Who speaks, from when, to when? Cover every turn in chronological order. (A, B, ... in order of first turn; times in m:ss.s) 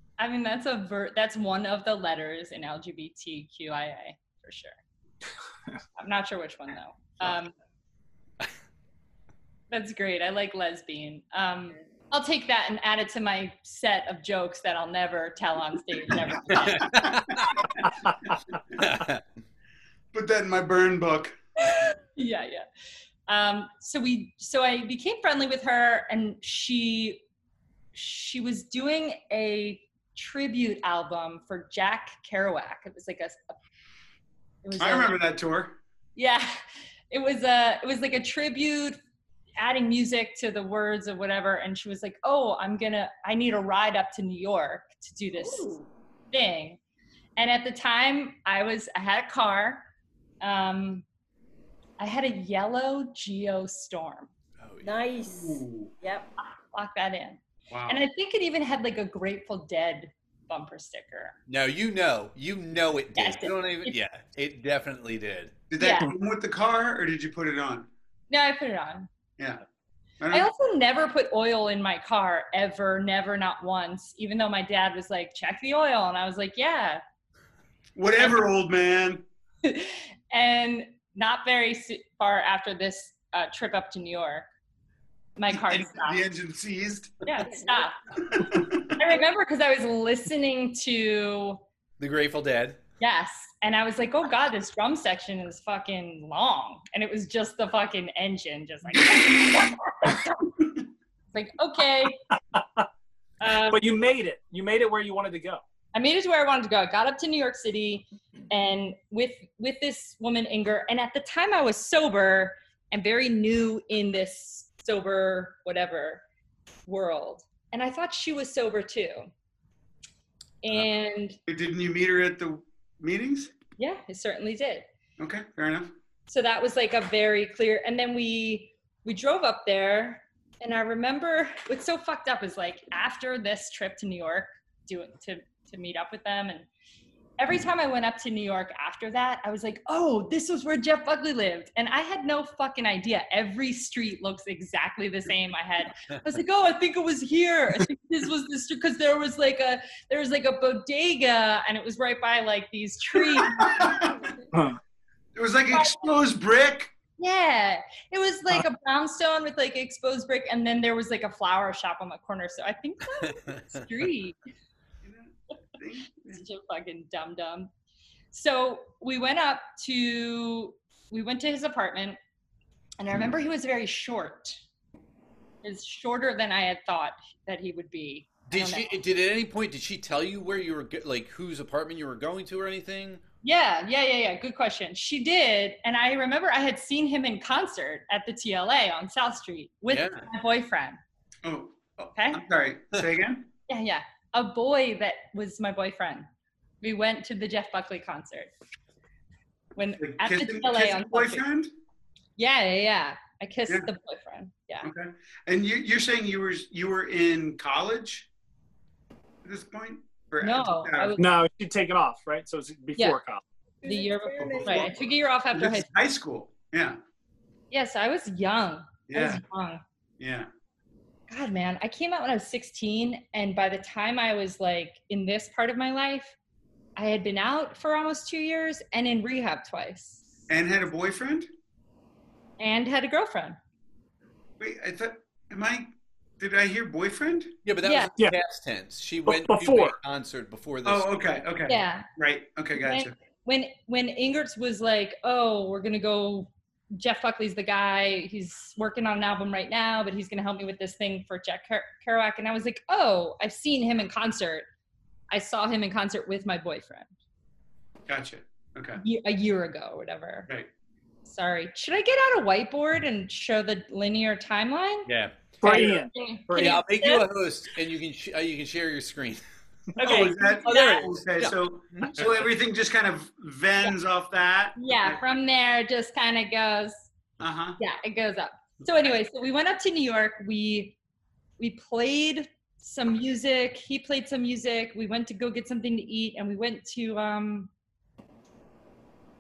0:00.2-0:04.8 A
0:06.0-0:07.5 A
0:09.7-0:17.0 A
0:16.6-0:17.5 B
0:16.9-0:18.3 C
0:18.8-0:19.2 B
0:20.1-0:21.3 C
0:21.6-0:22.7 A
0:23.3-0:27.2 A
0:27.9-0:33.6 A
0:34.6-0:35.2 A
0:34.8-0:35.8 C
0:36.2-0:36.5 A
0:37.1-0:39.0 A
0:39.6-0:45.7 A
0:45.3-0:45.9 D
0:46.3-0:46.8 A
0:47.4-0:49.8 A
0:50.4-0:51.0 A
0:52.0-0:54.3 A
0:54.6-0:55.1 B
0:54.8-0:56.3 D
0:55.3-0:55.9 C
0:56.5-1:01.4 A
0:57.7-0:58.0 C
1:01.5-1:05.6 B
1:03.2-1:04.0 A
1:05.7-1:07.9 C
1:05.8-1:06.1 A
1:08.3-1:09.1 A
1:10.2-1:10.5 C
1:10.3-1:17.0 A
1:18.0-1:19.2 C
1:19.6-1:24.5 A
1:25.4-1:26.3 A
1:25.5-1:27.4 C
1:27.2-1:28.0 A
1:28.3-1:28.9 C
1:28.6-1:31.6 A
1:32.0-1:32.8 B
1:33.0-1:40.4 A
1:41.3-1:42.2 A
1:42.5-1:42.9 E
1:43.4-1:43.8 A
1:43.7-1:45.6 E
1:45.9-1:56.2 A
1:56.9-1:59.3 A
2:00.6-2:01.4 A
2:01.5-2:03.5 C
2:03.8-2:04.9 A
2:05.2-2:05.9 C
2:06.3-2:16.7 A
2:17.4-2:33.9 A
2:33.4-2:34.2 C
2:34.5-2:34.8 E
2:35.4-2:36.9 C
2:35.7-2:36.0 A
2:37.2-2:44.4 A
2:45.0-2:46.4 C
2:46.3-2:47.7 A
2:48.3-2:52.2 A
2:53.0-2:54.6 A
2:55.6-2:58.9 A
2:58.5-3:03.2 B
3:03.4-3:11.0 A
3:09.9-3:10.3 B
3:11.4-3:13.5 C
3:12.2-3:12.4 A
3:13.7-3:16.3 A
3:16.8-3:18.5 A
3:19.8-3:21.4 A
3:20.0-3:21.7 C
3:22.4-3:24.9 A
3:24.8-3:28.3 C
3:29.4-3:31.2 C
3:30.4-3:31.3 A
3:31.2-3:33.4 E
3:33.8-3:35.0 D
3:33.8-3:35.9 A
3:34.6-3:35.0 C
3:35.5-3:37.0 C
3:37.7-3:39.8 A
3:39.1-3:39.4 C
3:40.2-3:40.5 C
3:41.3-3:46.4 A
3:47.0-3:50.3 A
3:50.5-3:51.5 C
3:52.6-3:53.6 A
3:54.6-3:55.9 C
3:56.4-3:57.5 C
3:57.6-4:01.4 B
3:57.8-3:58.1 A
3:59.2-4:00.0 E
4:00.8-4:03.1 C
4:01.7-4:02.1 A
4:02.8-4:14.7 A
4:15.3-4:17.1 A
4:18.1-4:19.0 C
4:19.0-4:20.5 A
4:21.2-4:25.1 A
4:25.1-4:25.5 B
4:25.6-4:26.8 E
4:25.6-4:27.3 A
4:26.6-4:29.4 B
4:30.0-4:31.1 A
4:30.0-4:35.2 C
4:30.7-4:32.5 B
4:30.7-4:31.0 D
4:34.8-4:37.1 A
4:37.4-4:37.8 C
4:37.8-4:41.0 A
4:41.6-4:47.7 A